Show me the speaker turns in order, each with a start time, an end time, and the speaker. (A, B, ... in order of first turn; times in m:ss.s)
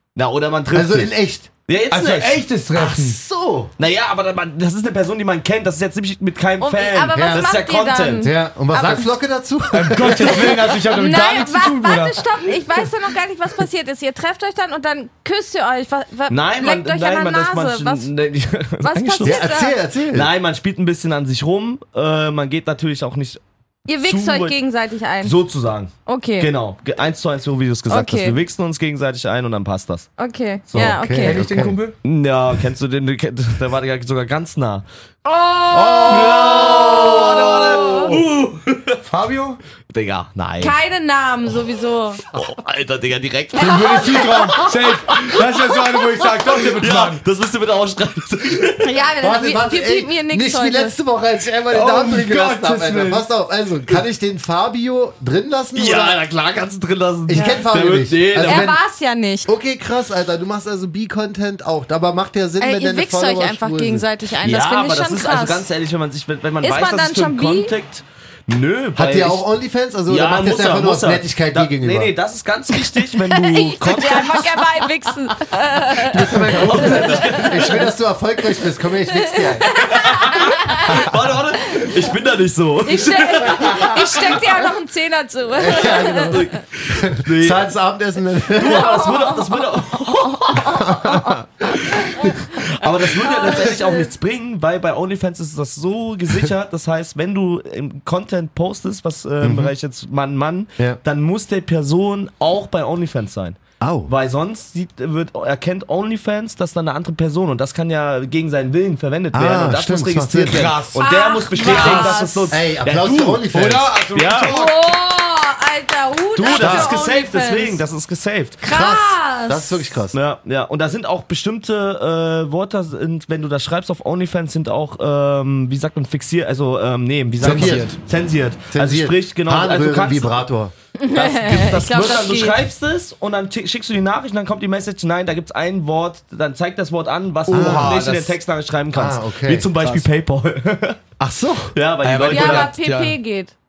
0:00.2-0:01.1 A
0:00.7-0:01.5 B
0:01.7-0:02.4 A
0:01.9-0:03.2 C
0:02.7-0:03.7 B
0:03.8-0:08.3 A
0:06.6-0:09.1 D
0:07.1-0:07.5 B
0:08.2-0:10.6 B
0:09.7-0:12.3 C
0:10.2-0:18.1 D
0:16.3-0:19.5 A
0:18.8-0:19.8 D
0:19.2-0:20.3 B
0:20.1-0:23.4 A
0:23.9-0:25.4 D
0:24.0-0:24.6 A
0:25.2-0:30.1 A
0:26.1-0:26.5 D
0:27.9-0:28.4 D
0:30.2-0:31.4 D
0:30.7-0:31.0 A
0:30.7-0:31.8 B
0:31.2-0:32.0 C
0:32.0-0:34.8 A
0:35.2-0:38.2 D
0:35.7-0:38.0 B
0:36.1-0:39.0 A
0:39.1-0:39.6 C
0:39.9-0:40.8 A
0:40.6-0:42.2 D
0:42.2-0:49.0 A
0:43.6-0:44.5 D
0:43.6-0:47.2 C
0:48.8-0:50.9 D
0:49.2-0:56.2 B
0:51.7-0:53.2 C
0:55.8-0:58.7 A
0:57.3-0:58.8 B
0:57.3-0:57.6 D
0:58.4-0:59.5 D
0:59.5-1:04.1 B
1:02.6-1:05.6 D
1:04.4-1:09.4 A
1:06.6-1:07.7 D
1:08.9-1:12.1 B
1:10.1-1:14.6 A
1:13.0-1:17.7 D
1:16.0-1:19.9 B
1:16.5-1:17.9 A
1:19.1-1:21.1 D
1:19.8-1:24.6 A
1:22.8-1:26.6 D
1:25.6-1:29.1 B
1:25.8-1:27.7 A
1:28.5-1:54.6 A
1:28.6-1:32.4 D
1:30.6-1:31.8 B
1:33.2-1:34.1 D
1:39.4-1:39.7 B
1:43.8-1:44.1 B
1:49.3-1:50.7 B
1:50.5-1:51.0 C
1:51.0-1:52.5 D
1:51.6-1:52.2 C
1:52.5-1:53.9 B
1:53.5-1:54.8 C
1:54.4-1:57.8 D
1:56.4-1:58.6 A
1:56.5-1:56.9 B
1:58.6-1:59.9 D
1:58.6-2:00.2 B
2:00.1-2:10.4 A
2:07.4-2:08.0 B
2:07.4-2:08.0 C
2:08.7-2:10.7 B
2:11.0-2:12.6 D
2:11.1-2:21.0 A
2:17.5-2:18.0 B
2:17.5-2:18.4 C
2:18.9-2:19.7 B
2:21.2-2:21.8 B
2:21.7-2:22.7 A
2:22.0-2:23.2 C
2:22.3-2:23.5 D